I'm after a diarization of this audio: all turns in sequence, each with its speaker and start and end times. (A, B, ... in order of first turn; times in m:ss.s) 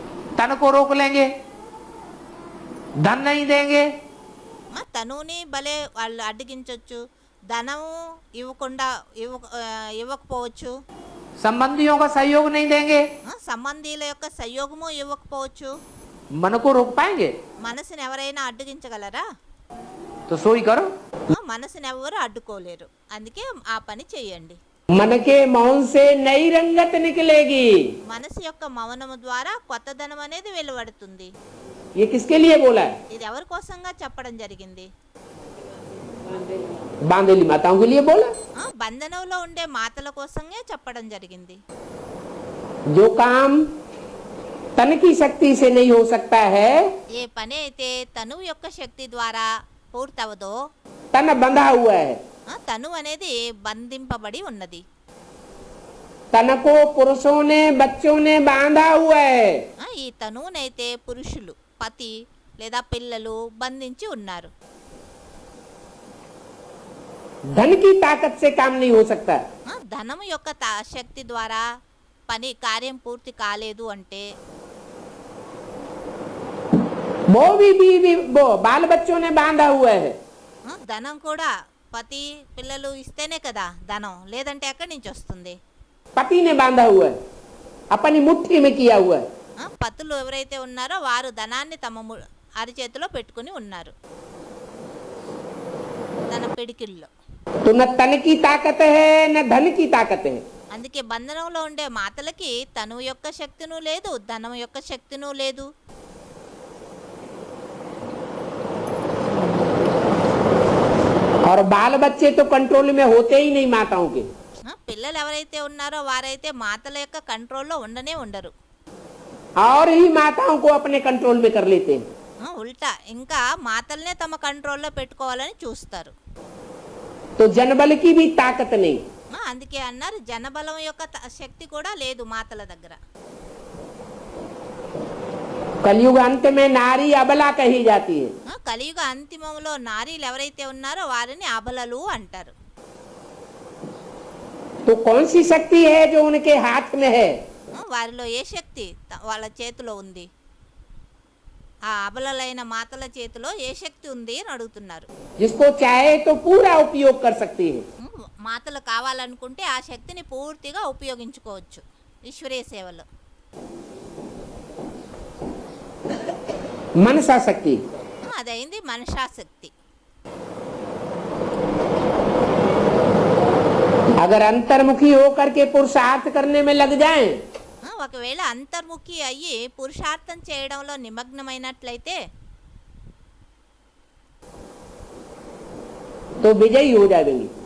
0:00.4-0:01.3 A
0:03.0-0:03.9 A
0:04.7-0:10.8 B
0:11.4-0:13.1 A
0:13.3-0:15.8 B
0:16.4-0:17.3 A
0:17.6-0:19.2 B
0:20.3-0:20.9 A
0:21.3-0:24.6 B
0:24.9-0:27.7 A
0:28.1-0:31.3 B
0:32.0-0:32.9 A
0:33.1-0:34.9 B
0:37.1-0:38.3 A
0:38.6-0:41.6 B
0:42.9-0:43.7 A
0:44.8-0:46.9 A
0:47.1-0:50.6 B
0:51.1-0:52.2 A
0:52.5-0:54.8 B
0:56.3-0:59.6 A
0:59.8-1:04.5 B
1:07.6-1:09.4 A
1:09.7-1:11.6 B
1:12.3-1:14.3 B
1:17.3-1:20.2 A
1:20.7-1:25.6 B
1:26.2-1:27.1 A
1:27.9-1:29.2 A
1:29.6-1:34.0 B
1:36.3-1:37.1 B
1:37.7-1:40.4 A
1:40.8-1:45.7 B
1:51.4-1:54.3 A
1:54.7-1:58.5 B
1:59.6-2:02.0 A
2:02.4-2:06.2 B
2:07.4-2:09.0 A
2:09.4-2:13.0 B
2:15.8-2:18.3 A
2:18.5-2:22.5 B
2:24.9-2:27.4 A
2:27.8-2:30.3 B
2:31.9-2:35.1 B
2:35.4-2:37.8 A
2:38.0-2:43.1 B
2:47.0-2:47.8 A
2:48.3-2:49.7 B
2:54.2-2:57.4 A
2:57.8-3:02.2 B
3:06.4-3:07.5 A